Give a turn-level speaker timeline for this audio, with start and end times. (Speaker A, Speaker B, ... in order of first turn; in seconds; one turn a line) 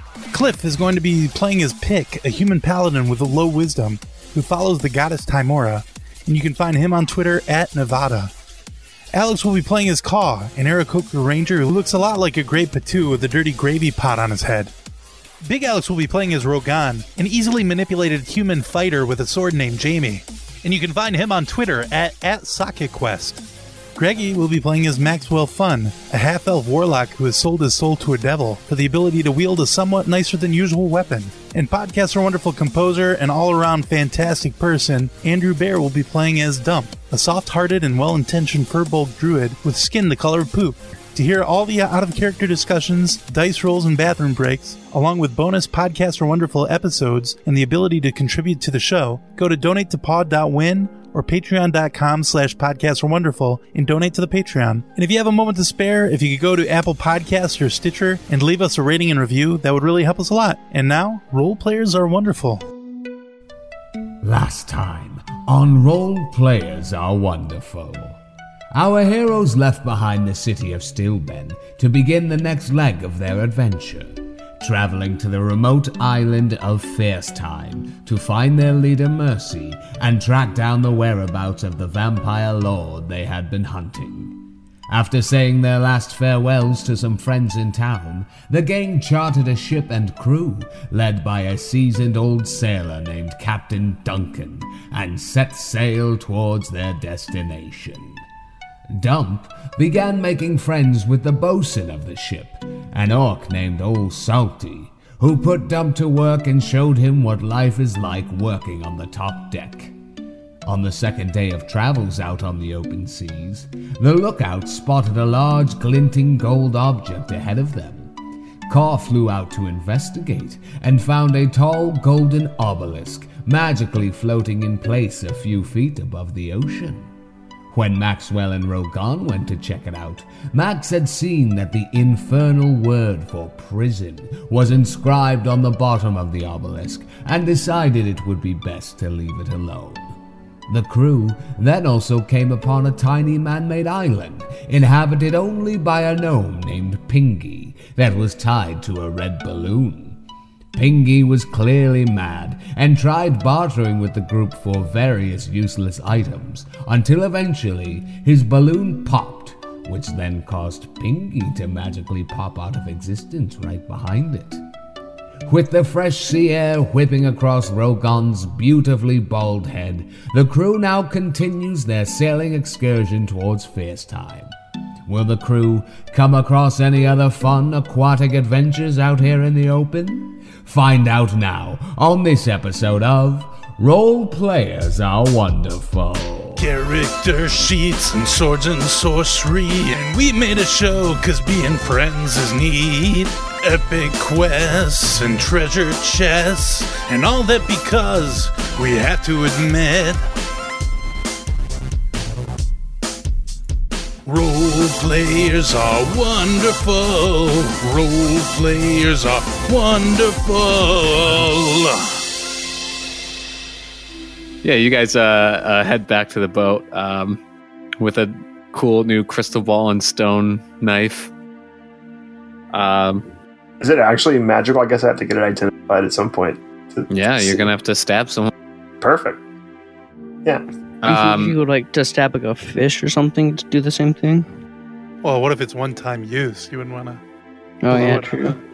Speaker A: 0.3-8.3
Speaker A: 9.1-14.7
Speaker A: 15.4-23.4
Speaker A: 23.9-62.6
Speaker B: 64.2-68.2
Speaker B: 68.7-98.2
Speaker B: 98.9-109.9
Speaker B: 110.6-118.1
Speaker B: 118.7-127.1
Speaker B: 127.7-140.2
Speaker B: 140.7-150.2
Speaker B: 150.7-164.6
Speaker B: 165.4-174.5
Speaker B: 175.1-186.7
Speaker A: 186.6-200.3
Speaker A: 204.2-212.2
Speaker C: 214.6-217.4
Speaker C: 218.0-221.3
Speaker C: 222.7-223.3
Speaker D: 223.8-227.7
Speaker C: 227.1-228.5
Speaker D: 229.0-229.4
Speaker C: 231.0-231.6
Speaker E: 231.0-234.5
Speaker A: 235.2-237.2
Speaker E: 237.8-238.6
Speaker A: 237.9-238.6